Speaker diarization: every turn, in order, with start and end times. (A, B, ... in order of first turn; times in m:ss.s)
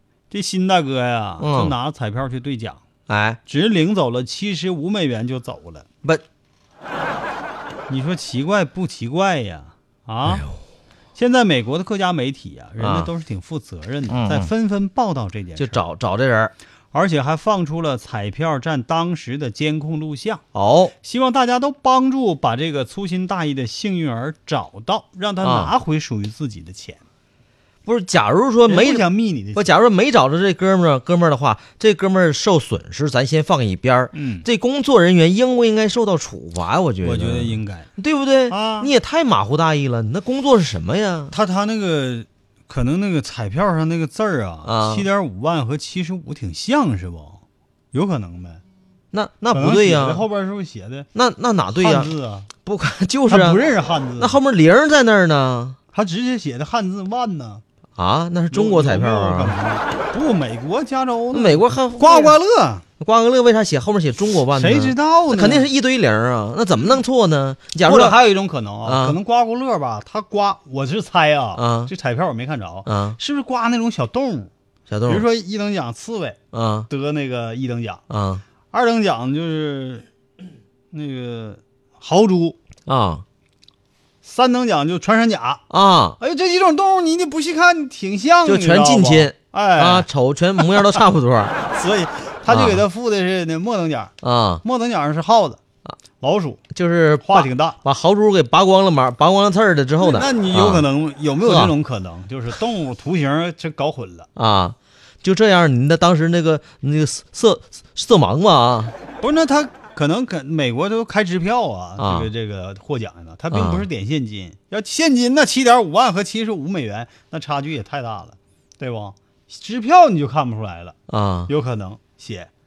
0:00.3-0:02.8 A
0:01.4-0:01.7 B
0:03.1-0:03.4 B
0:03.4-0:05.8 A
0:07.9-0:10.4 A
0:10.2-0:10.6 B
0:11.1-0:15.8 A
0:12.8-0:13.1 B
0:14.1-0:14.5 B
0:15.6-0:16.5 B
0:16.9-0:20.4 A
0:20.5-0:20.9 B
0:21.0-0:27.0 A
0:25.4-0:25.7 B
0:27.8-0:41.3 B
0:28.7-0:29.8 A
0:34.1-0:34.4 A
0:37.0-0:37.9 A
0:38.5-0:38.9 A
0:41.3-0:47.4 A
0:44.6-0:45.1 B
0:47.9-0:48.6 A
0:49.1-0:50.2 B
0:49.5-0:51.1 A
0:51.1-0:52.1 B
0:51.7-0:52.5 A
0:52.6-0:53.6 B
0:53.3-0:54.4 A
0:54.2-0:55.8 B
0:55.9-0:57.6 A
0:58.0-0:59.6 B
0:58.5-1:02.8 A
1:01.3-1:02.4 B
1:03.0-1:08.2 B
1:04.5-1:05.7 A
1:07.8-1:14.5 A
1:08.8-1:09.2 B
1:11.6-1:11.9 B
1:12.8-1:13.2 B
1:14.9-1:15.2 B
1:15.1-1:16.4 A
1:16.5-1:16.9 B
1:16.9-1:18.0 A
1:18.1-1:18.4 B
1:18.7-1:20.1 A
1:20.9-1:22.6 A
1:22.9-1:23.2 B
1:24.2-1:25.6 A
1:25.7-1:26.2 B
1:26.2-1:30.1 A
1:28.4-1:31.6 B
1:30.6-1:31.0 A
1:31.6-1:35.6 A
1:32.5-1:32.8 B
1:34.2-1:34.6 B
1:36.2-1:36.6 A
1:36.7-1:40.9 B
1:37.2-1:37.8 A
1:40.0-1:44.3 A
1:41.4-1:41.7 B
1:44.4-1:48.9 B
1:49.2-2:01.0 A
1:52.0-1:52.3 B
1:53.5-1:53.9 B
2:01.1-2:01.5 B
2:01.5-2:02.5 A